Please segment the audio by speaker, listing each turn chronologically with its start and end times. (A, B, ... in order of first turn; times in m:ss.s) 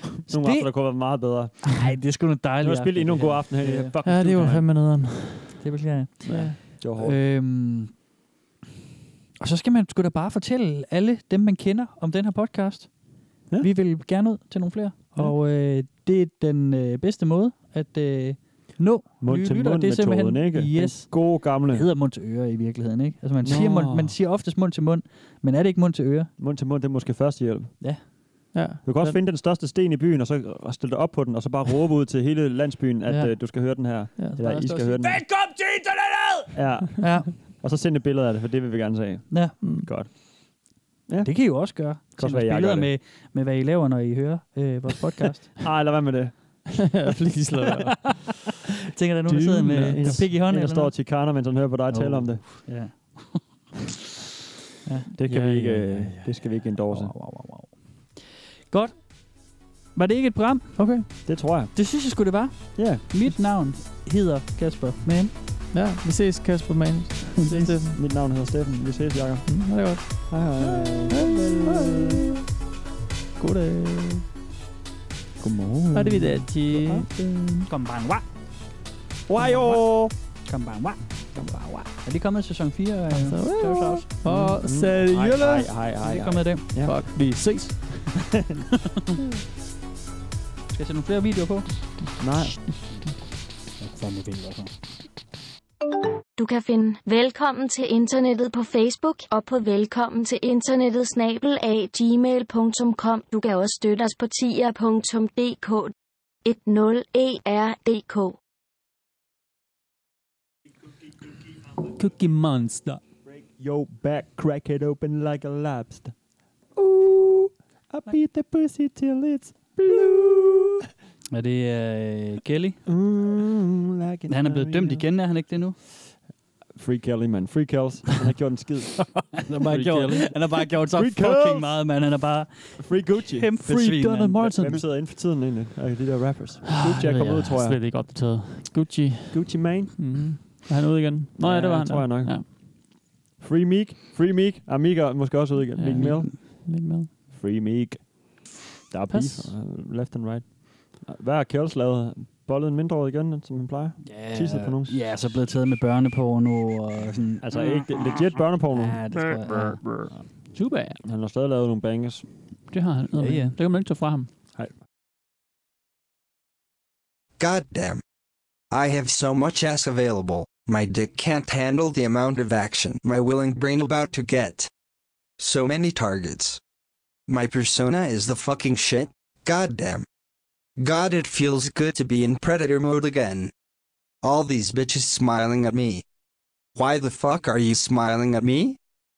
0:00.2-0:03.9 A
0:00.3-0:01.8 B
0:02.6-0:04.7 B
0:04.0-0:05.7 C
0:05.6-0:08.0 A
0:06.2-0:07.2 B
0:06.2-0:06.6 C
0:09.4-0:26.3 A
0:19.2-0:21.9 B
0:23.4-0:24.1 B
0:26.4-0:28.1 B
0:28.5-0:29.2 C
0:28.8-0:35.2 B
0:33.0-0:37.3 A
0:36.5-0:42.9 B
0:39.3-0:39.8 A
0:39.6-0:39.9 C
0:41.2-0:45.5 A
0:45.6-0:46.6 B
0:46.8-0:48.3 C
0:48.9-0:51.2 A
0:49.3-0:50.3 C
0:49.9-0:52.7 B
0:51.9-0:53.7 A
0:54.8-1:05.3 A
0:55.2-0:56.0 C
0:55.2-0:57.2 B
1:00.8-1:01.0 C
1:01.2-1:01.8 B
1:02.8-1:03.0 B
1:05.7-1:08.0 C
1:07.4-1:07.7 A
1:07.9-1:12.1 B
1:09.4-1:10.5 C
1:11.1-1:12.4 C
1:13.4-1:14.2 C
1:15.4-1:16.6 A
1:15.9-1:17.7 C
1:17.7-1:18.2 A
1:19.3-1:20.1 B
1:19.4-1:24.4 A
1:23.1-1:25.7 C
1:24.2-1:27.1 B
1:26.0-1:26.6 A
1:26.8-1:28.2 C
1:30.7-1:31.7 A
1:32.2-1:32.8 B
1:33.8-1:34.7 A
1:36.4-1:45.9 D
1:46.4-1:48.4 D
1:52.0-1:53.0 C
1:53.2-1:56.1 B
1:56.7-2:00.9 B
2:01.3-2:02.8 A
2:02.8-2:05.0 B
2:04.3-2:05.8 A
2:06.7-2:09.1 B
2:09.1-2:14.4 A
2:09.5-2:10.3 C
2:10.9-2:11.7 B
2:12.8-2:13.5 B
2:13.6-2:14.9 C
2:14.3-2:17.8 B
2:16.7-2:22.5 C
2:19.3-2:20.4 B
2:21.4-2:26.6 B
2:25.7-2:27.1 C
2:26.0-2:26.3 A
2:27.3-2:35.0 B
2:29.1-2:29.5 C
2:34.0-2:37.7 A
2:37.4-2:39.1 B
2:37.6-2:37.9 C
2:38.4-2:39.8 A
2:39.1-2:41.0 C
2:40.1-2:42.5 B
2:42.7-2:44.3 C
2:43.1-2:43.6 A
2:44.5-2:44.8 B
2:47.4-2:48.0 E
2:48.7-2:54.7 E
2:55.4-2:56.6 E
2:57.3-3:00.0 E
3:00.8-3:03.5 E
3:04.2-3:06.0 E
3:06.7-3:08.8 E